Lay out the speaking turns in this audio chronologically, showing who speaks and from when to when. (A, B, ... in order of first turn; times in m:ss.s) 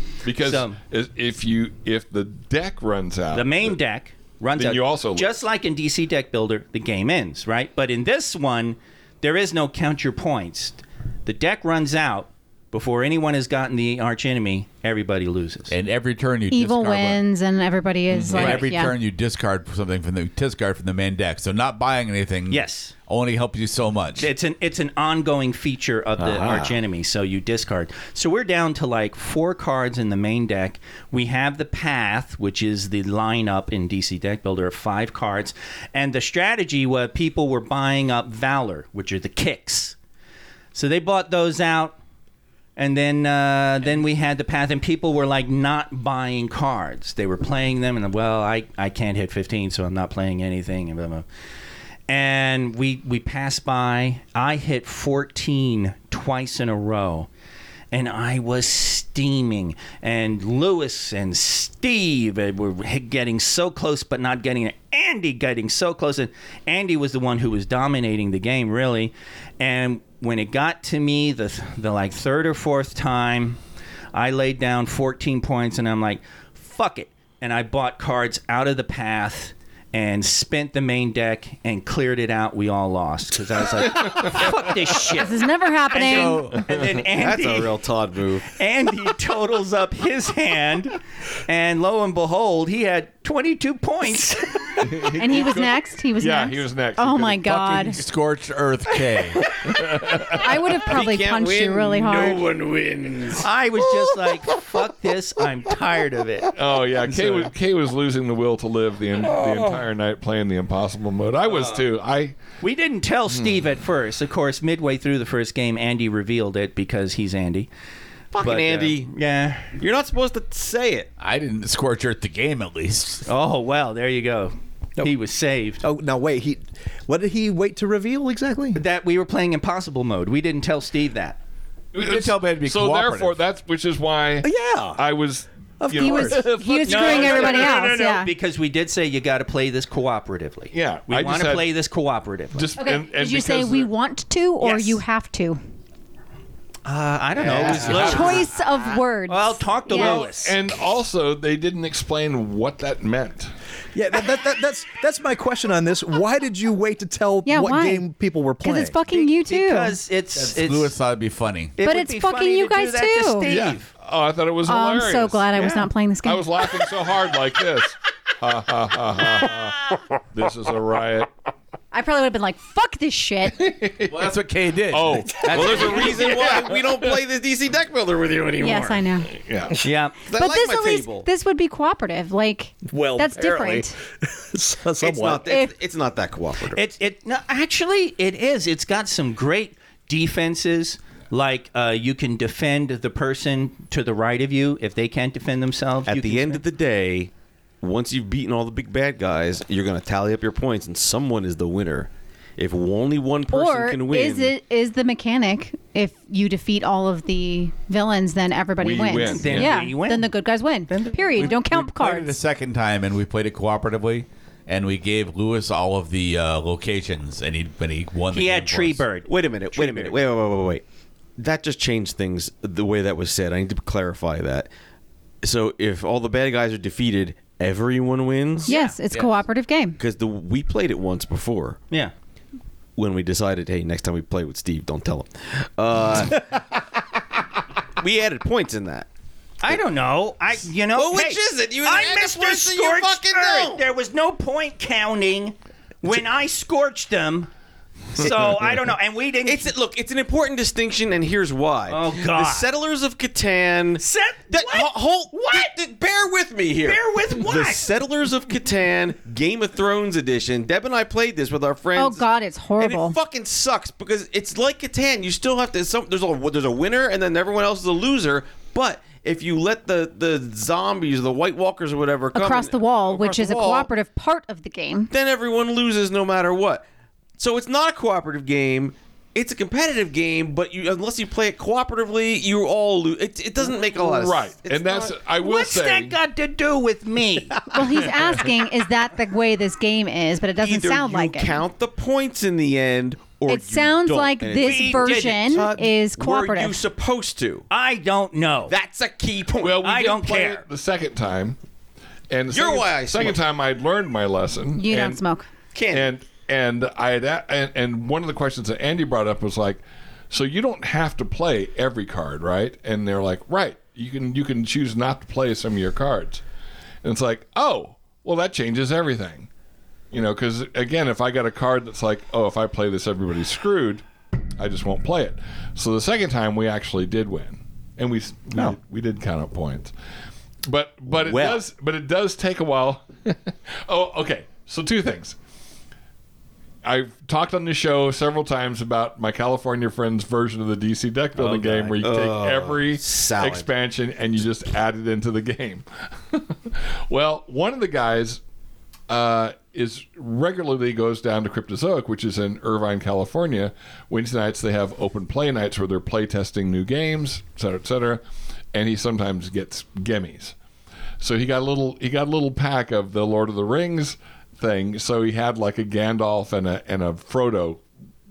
0:00.2-0:03.8 A
0:00.3-0:00.8 B
0:03.3-0:15.7 B
0:04.5-0:05.4 A
0:15.7-0:17.2 C
0:16.5-0:18.9 D
0:18.1-0:18.5 A
0:18.3-0:24.3 C
0:18.4-0:18.6 B
0:22.5-0:22.9 B
0:24.2-0:40.0 B
0:40.7-0:42.0 B
0:42.8-0:51.2 B
0:52.1-0:57.3 B
0:57.9-1:13.6 B
1:14.1-1:27.8 B
1:24.0-1:24.4 A
1:25.2-1:26.4 D
1:26.0-1:26.6 C
1:27.1-1:28.5 E
1:28.5-1:34.6 B
1:34.9-1:37.5 A
1:35.0-1:38.0 D
1:37.4-1:39.4 C
1:39.6-1:40.6 A
1:40.3-1:42.5 D
1:40.8-1:43.4 E
1:43.3-1:47.5 B
1:46.5-1:52.4 A
1:51.5-1:51.8 B
1:52.6-1:57.7 B
1:58.3-1:59.1 E
1:58.4-1:59.7 B
1:59.8-2:01.1 E
2:01.2-2:03.2 C
2:03.2-2:05.8 B
2:05.8-2:08.8 F
2:08.7-2:11.4 B
2:11.9-2:17.9 A
2:12.0-2:13.4 C
2:14.4-2:15.0 F
2:15.8-2:16.4 F
2:16.0-2:18.3 D
2:16.8-2:22.7 B
2:20.7-2:21.7 A
2:22.5-2:23.9 A
2:22.8-2:25.6 D
2:24.6-2:25.0 B
2:26.8-2:28.5 B
2:27.4-2:28.2 E
2:27.5-2:28.0 A
2:27.8-2:30.2 D
2:29.3-2:30.6 B
2:29.9-2:33.5 A
2:33.9-2:39.0 F
2:37.4-2:38.0 D
2:38.6-2:39.9 D
2:39.1-2:40.9 B
2:40.3-2:41.8 C
2:41.8-2:43.9 B
2:41.8-2:43.5 D
2:43.4-2:49.8 A
2:44.6-2:46.7 D
2:45.6-2:45.8 B
2:50.3-2:51.3 A
2:51.9-2:53.6 D
2:53.5-2:54.3 A
2:54.1-2:56.3 C
2:54.9-2:57.2 A
2:55.5-2:59.0 E
2:58.6-2:59.3 D
2:59.4-2:59.8 A
2:59.8-3:00.2 B
3:00.2-3:01.2 E
3:00.3-3:03.9 D
3:02.8-3:05.6 F
3:05.0-3:06.8 E
3:05.4-3:05.7 D
3:06.7-3:16.6 B
3:16.0-3:24.5 E
3:23.5-3:32.3 D
3:28.8-3:29.9 A
3:29.1-3:31.6 B
3:31.3-3:39.0 C
3:38.3-3:40.2 B
3:39.3-3:40.8 E
3:41.4-3:44.7 E
3:45.4-3:48.7 E
3:48.6-3:48.9 B
3:48.7-3:50.0 D
3:50.0-3:51.8 E
3:53.0-3:56.7 E
3:58.0-3:59.1 E
3:59.6-4:07.5 B
4:00.9-4:03.8 E
4:08.1-4:09.7 B
4:09.4-4:22.2 E
4:11.9-4:12.7 B
4:14.0-4:15.7 B
4:16.8-4:17.9 B
4:22.0-4:23.2 D
4:22.8-4:33.9 E
4:32.3-4:35.1 D
4:35.1-4:36.8 E
4:37.4-4:45.1 E
4:43.9-4:46.1 A
4:45.4-4:47.6 B
4:47.7-4:51.6 D
4:48.0-4:48.3 A
4:50.6-4:57.7 E
4:53.5-4:56.8 D
4:54.6-4:55.5 B
4:57.7-4:58.7 B
4:58.7-4:59.8 E
4:59.6-5:01.6 A
4:59.8-5:00.6 B
5:02.3-5:05.2 A
5:02.5-5:03.4 E
5:04.8-5:05.5 D
5:05.7-5:06.1 E
5:05.9-5:16.4 A
5:17.0-5:19.5 A
5:20.1-5:24.0 A
5:24.6-5:29.9 A
5:30.6-5:35.4 A
5:31.1-5:31.6 F
5:36.8-5:48.4 A
5:41.4-5:43.7 E
5:41.5-5:41.7 B
5:49.1-5:58.2 A
5:58.7-6:00.5 A
6:01.2-6:07.8 A